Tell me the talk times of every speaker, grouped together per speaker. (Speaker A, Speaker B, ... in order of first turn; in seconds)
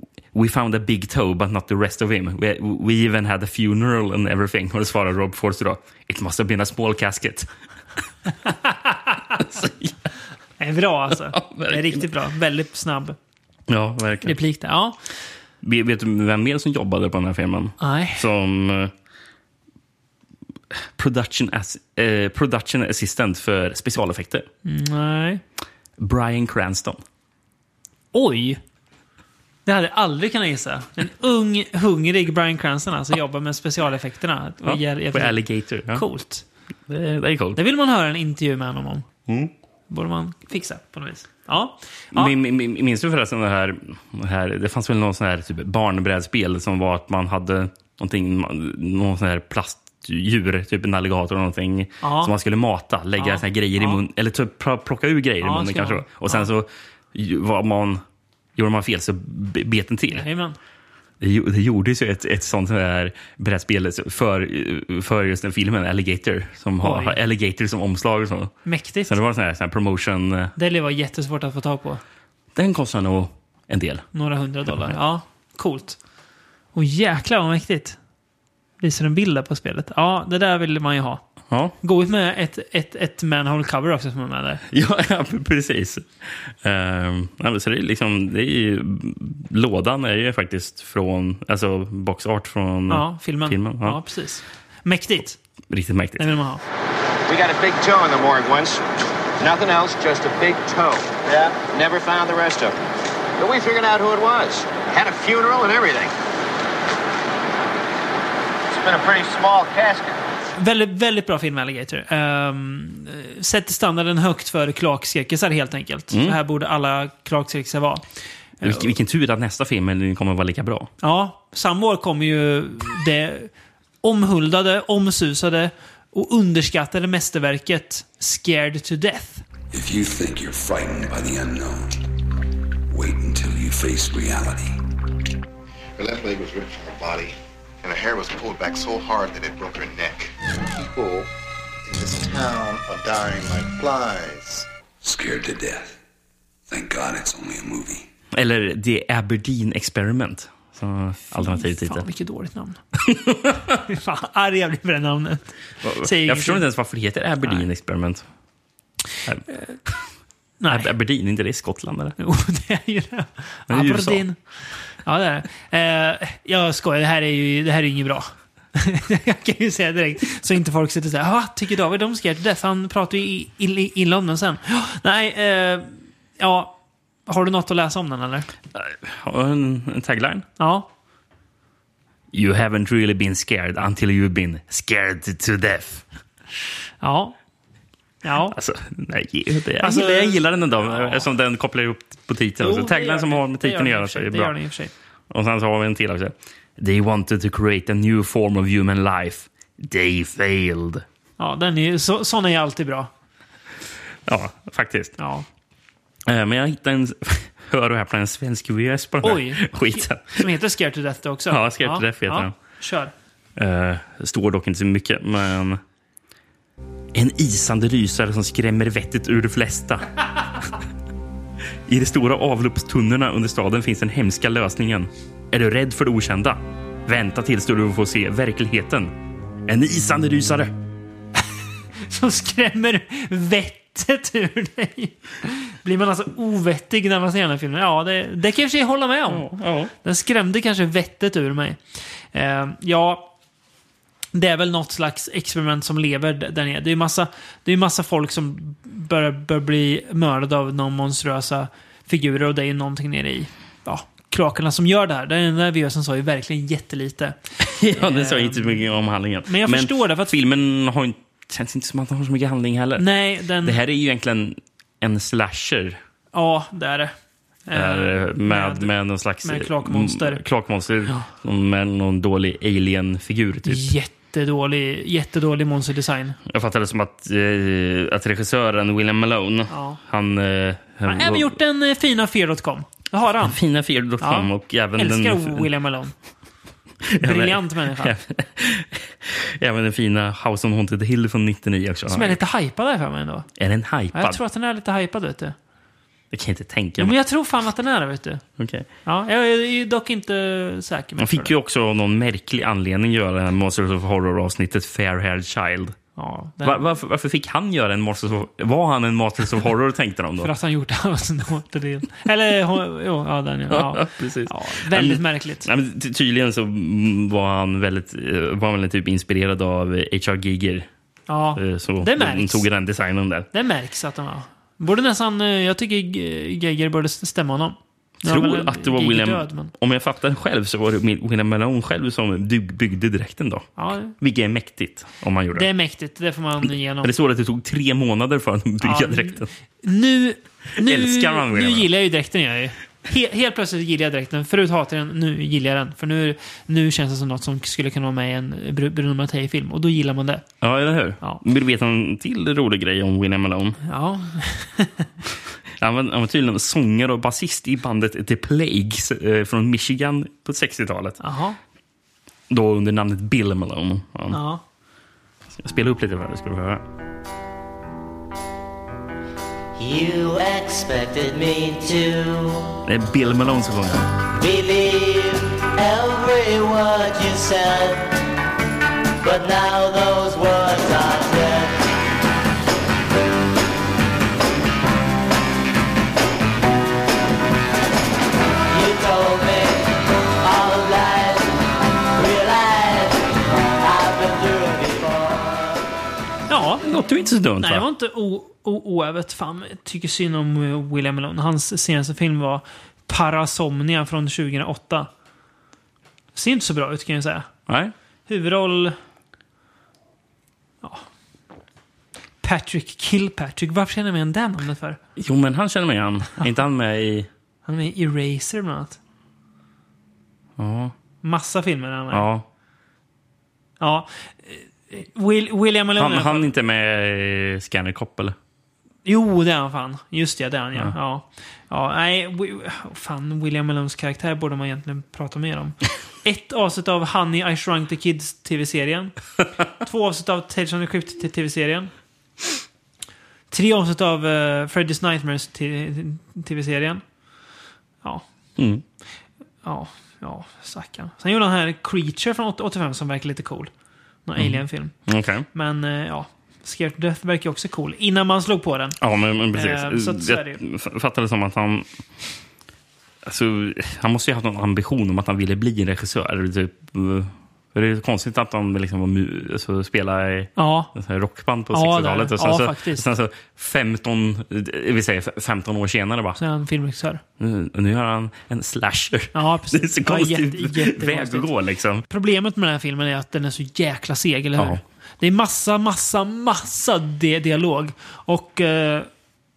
Speaker A: 0.3-7.5, 9.4-9.9, 11.2-12.1, 13.7-14.4, 15.6-18.9, 20.9-24.5, 26.0-27.0, 34.6-36.0, 36.9-37.6, 39.3-39.5, 42.1-58.0, 58.5-60.3, 61.2-70.5, 72.5-74.0, 81.5-81.7, 84.7-94.0, 95.7-96.3, 116.1-116.4, 118.6-120.9, 148.3-152.0, 153.0-153.8, 155.8-158.2, 159.2-160.0, 160.7-162.1, 163.7-164.2, 178.7-180.4, 182.3-186.0, 188.5-194.6, 195.3-201.0, 204.2-205.2, 206.2-210.5, 211.5-212.5, 213.6-215.8, 217.1-220.1, 221.9-229.1, 229.7-230.7, 239.3-239.9, 257.6-266.0, 267.7-273.9, 276.4-281.5, 283.4-285.7, 287.0-292.4, 293.6-294.4, 296.3-297.1, 298.6-298.9, 301.2-305.9, 306.6-310.5, 313.7-320.9, 321.5-323.5, 328.2-335.7, 337.0-339.5, 340.8-341.9, 350.6-353.8, 355.7-361.2, 362.5-364.4, 365.6-366.8, 372.8-374.1, 396.8-397.9, 407.7-407.9, 415.1-417.3, 420.6-420.9, 422.1-422.4, 425.9-428.4, 448.6-448.8, 454.4-455.5, 459.0-461.9, 463.2-476.4, 477.4-482.0, 484.6-484.8
Speaker B: 8.7-8.9, 10.6-13.2, 14.2-15.0, 17.8-18.2, 24.6-25.4, 28.1-28.6, 29.6-36.4, 37.5-39.0, 39.9-42.3, 52.0-52.3, 53.2-54.0, 55.4-56.5, 60.1-60.6, 66.8-67.2, 68.6-69.2, 70.5-72.0, 74.1-76.0, 76.7-78.0, 78.8-81.2, 81.8-84.6, 92.9-95.4, 96.2-96.6, 110.6-118.0, 118.6-118.9, 121.0-123.5, 124.0-129.4, 151.3-152.8, 153.8-156.7, 159.5-159.7, 160.6-160.9, 162.2-164.4, 164.9-176.7, 177.2-178.5, 180.6-180.9, 187.0-187.3, 188.2-188.6, 189.8-191.3, 192.6-194.9, 201.4-203.1, 205.2-205.4, 209.2-213.1, 232.0-239.5, 240.0-241.8, 242.3-243.3, 244.3-258.8, 259.4-260.3, 263.0-263.8, 266.3-267.1, 267.7-268.9, 269.4-270.4, 273.6-276.4, 279.7-280.0, 281.1-283.6, 284.2-286.1, 287.2-288.1, 292.1-293.5, 294.1-295.6, 297.0-298.4, 299.0-301.5, 306.1-306.8, 310.4-315.7, 321.3-322.6, 323.5-329.7, 333.8-334.1, 335.5-337.1, 338.8-350.4, 353.9-355.1, 361.2-361.6, 364.3-364.6, 396.5-405.1, 406.3-407.5, 408.3-409.0, 412.4-415.0, 417.6-419.0, 421.2-422.3, 423.8-426.5, 429.0-439.1, 439.8-441.9, 443.5-447.0, 449.6-453.7, 454.2-454.9, 455.5-459.0, 459.5-460.6, 470.6-470.9, 471.7-473.1, 476.4-477.2, 479.3-481.5, 482.1-489.1
Speaker C: 97.3-102.8, 103.4-106.1, 108.7-110.2
Speaker D: 129.7-132.0, 132.9-134.8, 145.0-146.0, 146.7-148.1
Speaker E: 136.0-141.3, 141.8-144.7
Speaker F: 369.8-372.7, 374.4-378.1, 379.2-381.8, 388.7-391.6, 392.1-395.8